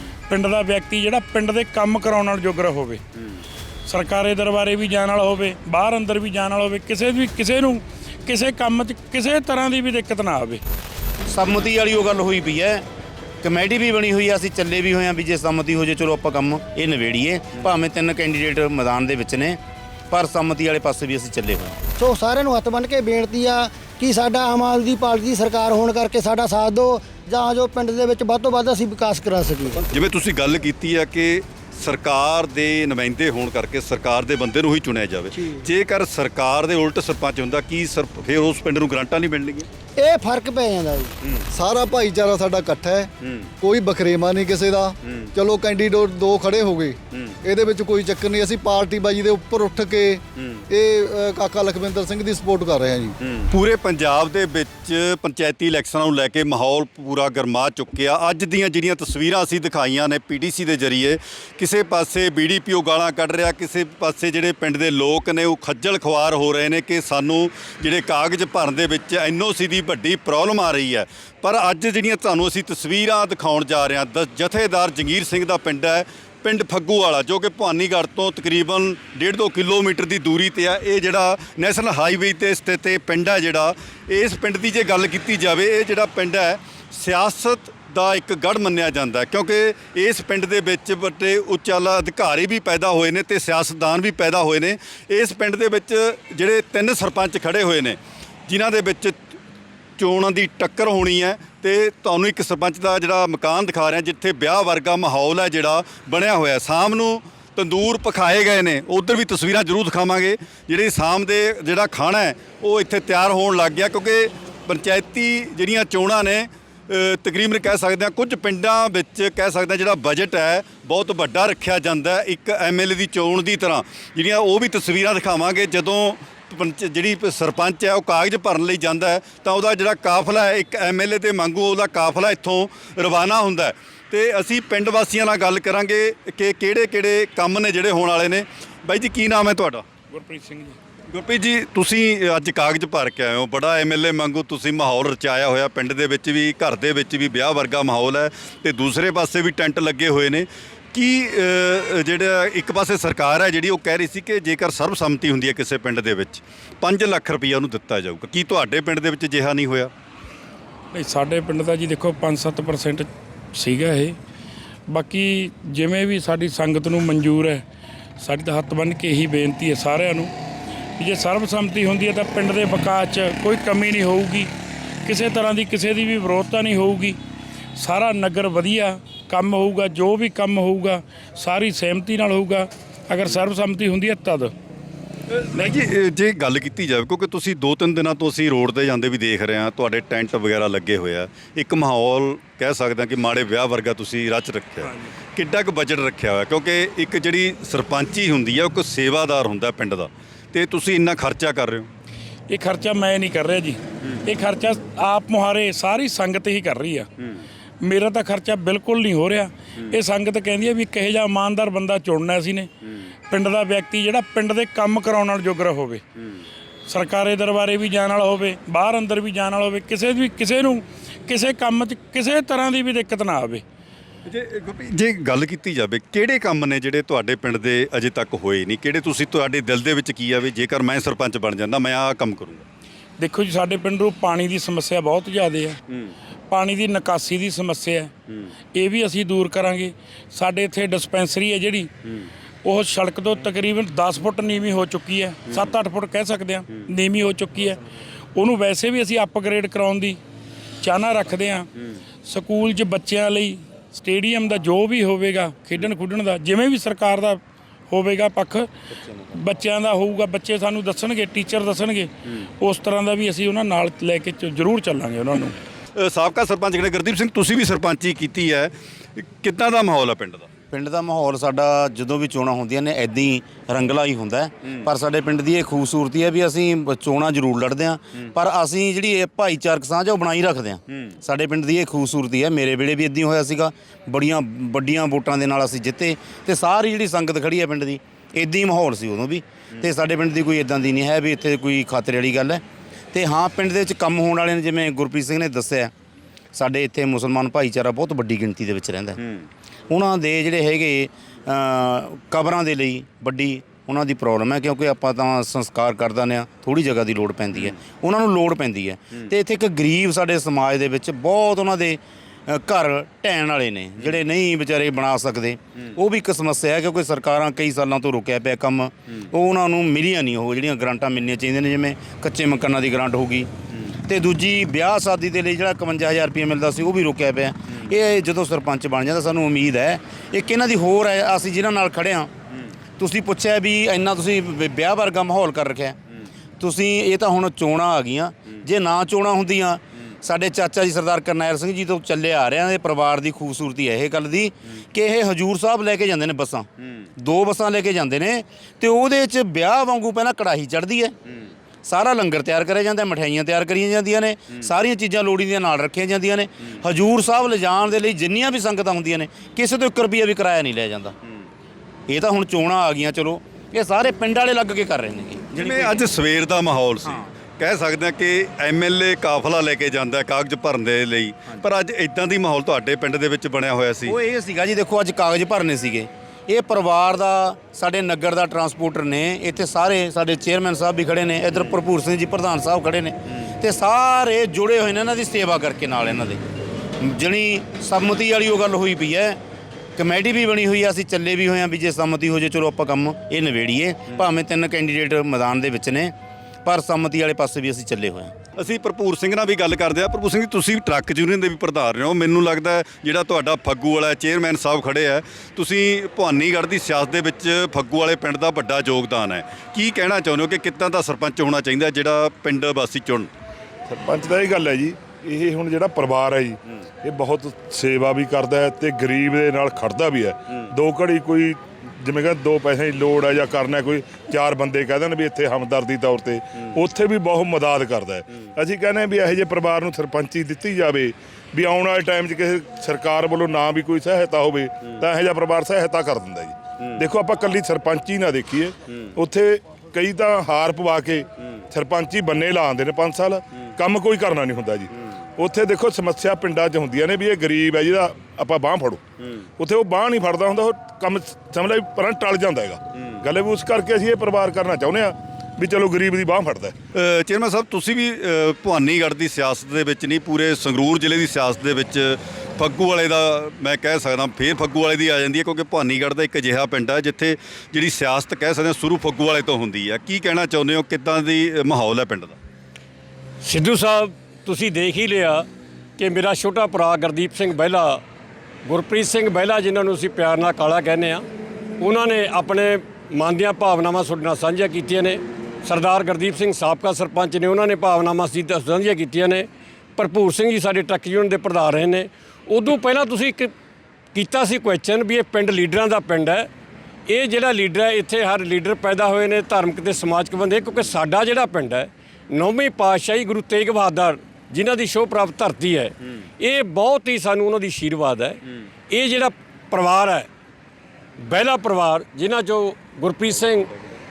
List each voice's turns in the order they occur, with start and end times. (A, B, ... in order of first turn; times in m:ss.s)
0:00.3-0:03.0 A
0:03.8-0:10.6 A
0:11.3-0:12.8 B
0:13.4-0:21.8 B
0:22.0-0:29.8 C
0:29.9-0:39.7 D
0:35.3-0:35.6 C
0:40.0-0:41.1 C
0:41.5-0:43.1 E
0:43.2-0:43.5 D
0:43.6-0:53.2 E
0:45.0-0:45.3 D
0:50.4-0:50.6 D
0:53.2-1:39.2 D
1:40.0-2:19.8 D
2:20.1-2:20.8 A
2:21.1-2:39.9 D
2:40.9-2:44.2 A
2:44.9-2:47.6 A
2:48.2-2:50.3 A
2:51.0-2:54.5 A
2:55.0-2:57.2 A
2:57.8-3:04.5 A
3:05.3-3:21.9 D
3:22.5-3:27.1 A
3:27.8-3:32.7 A
3:33.3-3:36.0 A
3:36.9-3:43.6 A
3:44.2-3:52.6 D
3:53.2-3:55.8 A
3:56.5-3:58.1 A
3:58.7-4:01.9 A
4:02.6-4:07.8 A
4:08.3-4:10.2 A
4:10.8-4:11.7 A
4:12.2-4:18.7 A
4:19.3-4:22.1 A
4:22.6-4:25.5 A
4:26.0-4:30.5 D
4:30.7-4:55.9 B
4:56.5-4:59.2 B
4:59.9-5:32.3 B
5:33.0-5:36.0 B
5:36.6-5:51.2 B
5:51.8-6:01.1 B
6:02.1-6:06.1 B
6:05.6-6:14.2 D
6:14.0-6:26.4 B
6:27.0-6:29.4 B
6:30.0-6:36.1 B
6:36.6-6:38.3 B
6:38.6-6:53.3 D
6:53.9-7:29.0 F
7:29.6-7:36.7 F
7:36.9-7:52.4 D
7:53.4-7:55.4 G
7:56.0-7:58.0 G
7:58.6-8:01.2 G
8:01.8-8:13.5 G
8:14.1-8:16.5 G
8:17.1-8:30.3 G
8:31.2-8:33.7 G